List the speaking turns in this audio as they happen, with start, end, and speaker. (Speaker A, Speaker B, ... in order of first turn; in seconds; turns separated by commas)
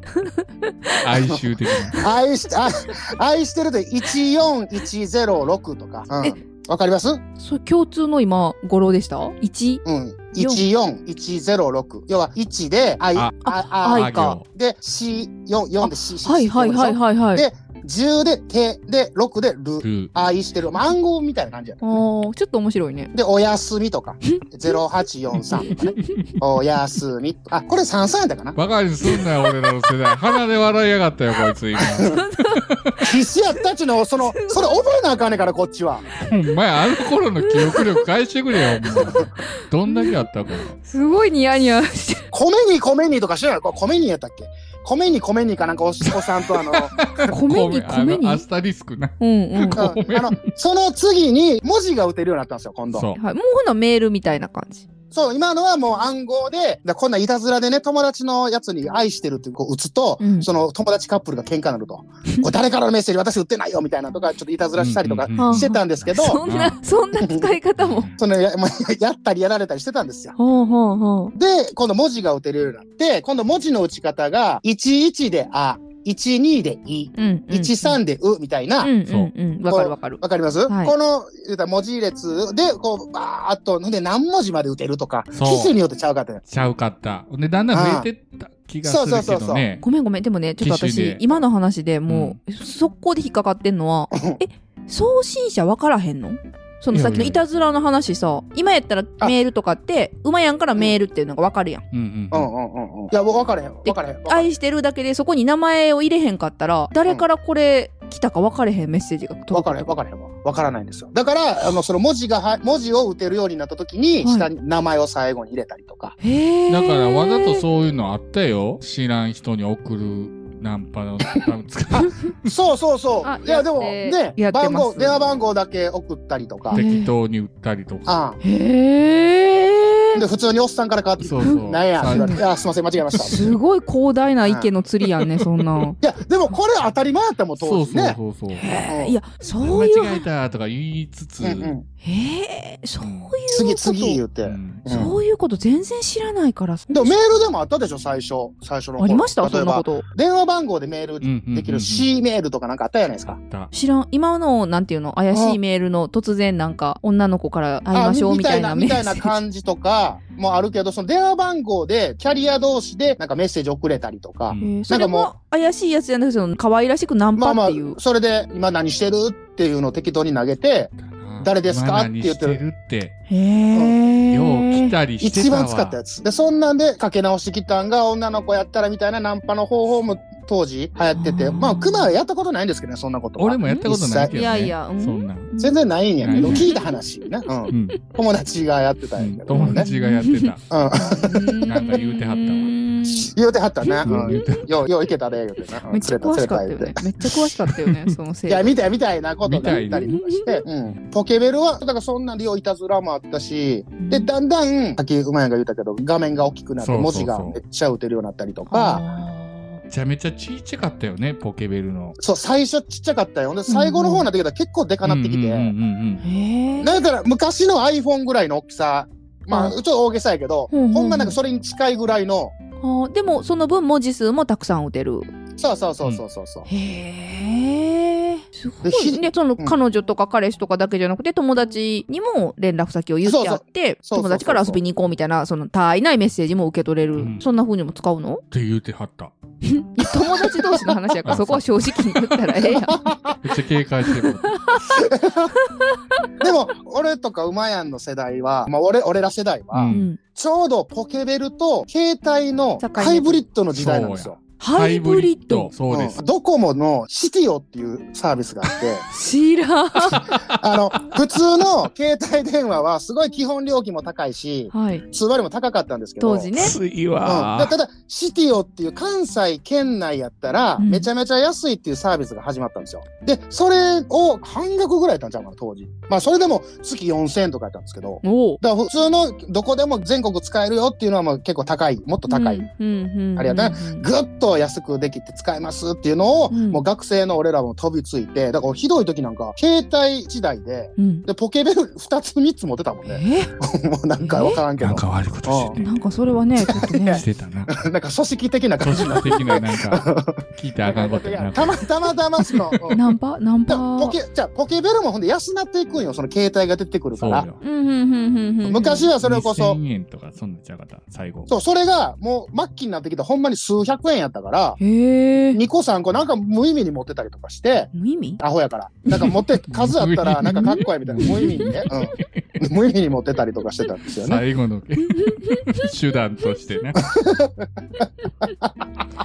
Speaker A: 0.1-1.0, Speaker B: 1.0-2.0, Speaker C: 2.0-7.2, Speaker A: 7.4-9.8, Speaker C: 9.8-21.8, Speaker A: 10.4-10.7, Speaker B: 13.2-14.4, Speaker A: 13.4-14.4, Speaker A: 15.8-17.5, Speaker B: 19.8-20.1, Speaker A: 21.8-23.1, Speaker C: 23.1-28.6, Speaker B: 28.6-33.0, Speaker A: 32.0-32.7, Speaker C: 33.0-36.1, Speaker A: 34.2-34.8, Speaker B: 36.2-40.8, Speaker A: 37.4-38.0, Speaker A: 38.7-40.2, Speaker A: 40.8-42.3, Speaker C: 42.3-47.0, Speaker B: 46.1-50.5, Speaker A: 47.2-48.5, Speaker A: 49.2-49.9, Speaker C: 49.7-53.1, Speaker B: 52.9-53.2, Speaker A: 53.2-54.9, Speaker C: 55.1-66.4, Speaker A: 60.2-60.5, Speaker B: 64.8-65.8, Speaker A: 65.4-68.1, Speaker B: 66.4-66.8, Speaker C: 67.2-67.5, Speaker B: 67.8-68.1, Speaker C: 68.2-70.3, Speaker A: 70.4-71.3, Speaker C: 71.4-78.9, Speaker A: 77.2-78.0, Speaker A: 78.8-80.9, Speaker C: 79.7-86.4, Speaker B: 85.3-85.8, Speaker B: 86.5-89.8, Speaker C: 87.7-88.1, Speaker C: 88.8-89.6, Speaker A: 89.8-101.8, Speaker B: 90.6-91.2, Speaker B: 92.1-92.4, Speaker C: 94.1-94.4, Speaker B: 96.9-97.4, Speaker B: 101.9-102.5, Speaker C: 102.3-104.5, Speaker A: 103.8-110.0, Speaker C: 109.5-116.2, Speaker A: 114.2-114.5, Speaker A: 116.2-117.6, Speaker B: 116.7-122.5, Speaker C: 122.5-126.8, Speaker A: 123.2-125.2, Speaker B: 126.7-128.1, Speaker A: 126.7-127.1, Speaker C: 128.1-128.4, Speaker A: 128.4-130.2, Speaker C: 130.2-133.4, Speaker B: 131.2-132.4, Speaker A: 132.1-132.4, Speaker B: 133.2-133.5, Speaker A: 133.2-136.0, Speaker C: 134.4-134.7, Speaker C: 136.0-138.2, Speaker B: 137.6-138.7, Speaker A: 138.5-140.2, Speaker C: 138.9-139.2, Speaker B: 139.6-141.7, Speaker C: 141.4-141.8, Speaker A: 142.0-144.2, Speaker B: 143.0-143.3, Speaker C: 143.5-145.2, Speaker B: 144.4-145.1, Speaker A: 144.9-147.2, Speaker C: 146.9-153.4, Speaker A: 149.0-150.1, Speaker B: 151.2-152.1, Speaker B: 153.4-153.7, Speaker A: 153.7-159.3, Speaker C: 155.3-155.6, Speaker C: 157.9-165.3, Speaker A: 164.6-168.0, Speaker C: 167.4-172.6, Speaker B: 171.0-173.2, Speaker A: 173.3-174.9, Speaker B: 174.3-176.0, Speaker C: 175.2-184.3, Speaker B: 179.8-180.2, Speaker A: 181.2-182.1, Speaker B: 183.4-185.5, Speaker A: 183.6-185.8, Speaker C: 185.6-189.9, Speaker B: 186.2-186.7, Speaker A: 186.3-186.8, Speaker B: 187.7-188.0, Speaker B: 189.2-190.6, Speaker A: 189.5-193.3, Speaker C: 190.7-191.8, Speaker B: 191.7-192.7, Speaker C: 193.1-197.0, Speaker A: 193.8-194.6, Speaker B: 194.1-194.7, Speaker A: 195.9-198.7, Speaker B: 197.7-198.1, Speaker C: 198.5-209.0, Speaker B: 199.5-200.1, Speaker A: 199.6-200.6, Speaker A: 204.0-204.3, Speaker B: 206.8-207.6, Speaker A: 208.7-209.8, Speaker B: 209.9-212.2, Speaker C: 212.2-215.7, Speaker A: 213.7-214.3, Speaker B: 215.0-216.2, Speaker A: 216.2-216.9, Speaker C: 216.8-222.5, Speaker A: 219.5-219.8, Speaker A: 220.7-221.4, Speaker A: 222.8-225.3, Speaker C: 225.6-226.7, Speaker A: 226.7-238.4, Speaker C: 228.8-229.8, Speaker C: 233.2-234.8, Speaker B: 237.2-237.4, Speaker B: 238.5-239.3, Speaker A: 239.6-243.0, Speaker C: 240.1-241.0, Speaker B: 241.3-242.4, Speaker C: 242.7-243.4, Speaker B: 243.4-244.6, Speaker A: 244.1-245.0, Speaker C: 244.9-245.5, Speaker A: 245.7-246.3, Speaker C: 246.4-254.4, Speaker B: 249.7-250.1, Speaker A: 249.9-250.2, Speaker A: 252.8-253.4, Speaker B: 253.7-256.2, Speaker A: 254.6-255.7, Speaker C: 255.9-259.1, Speaker A: 259.1-260.3, Speaker B: 260.1-260.6, Speaker C: 260.5-266.5, Speaker A: 264.7-265.0, Speaker A: 266.2-266.8, Speaker B: 266.6-267.8, Speaker C: 267.2-282.6, Speaker A: 270.8-271.1, Speaker A: 278.2-278.6, Speaker A: 282.3-284.1, Speaker C: 283.4-295.8, Speaker A: 286.5-286.8, Speaker A: 291.0-291.3, Speaker A: 293.1-293.5, Speaker A: 294.2-294.6, Speaker B: 294.8-295.9, Speaker A: 295.8-297.2, Speaker C: 296.6-303.0, Speaker B: 296.7-297.8, Speaker B: 298.8-301.8, Speaker A: 299.0-299.4, Speaker B: 302.4-303.0, Speaker A: 302.9-304.2, Speaker C: 303.7-307.5, Speaker B: 307.1-307.6, Speaker A: 307.6-309.1, Speaker C: 308.6-309.8, Speaker B: 309.2-311.5, Speaker C: 311.5-314.8, Speaker A: 314.8-315.6, Speaker C: 315.5-324.4, Speaker A: 317.9-318.4, Speaker A: 319.1-319.4, Speaker B: 319.7-322.2, Speaker A: 320.5-321.8, Speaker B: 324.2-327.1, Speaker A: 325.2-325.7, Speaker C: 327.1-328.1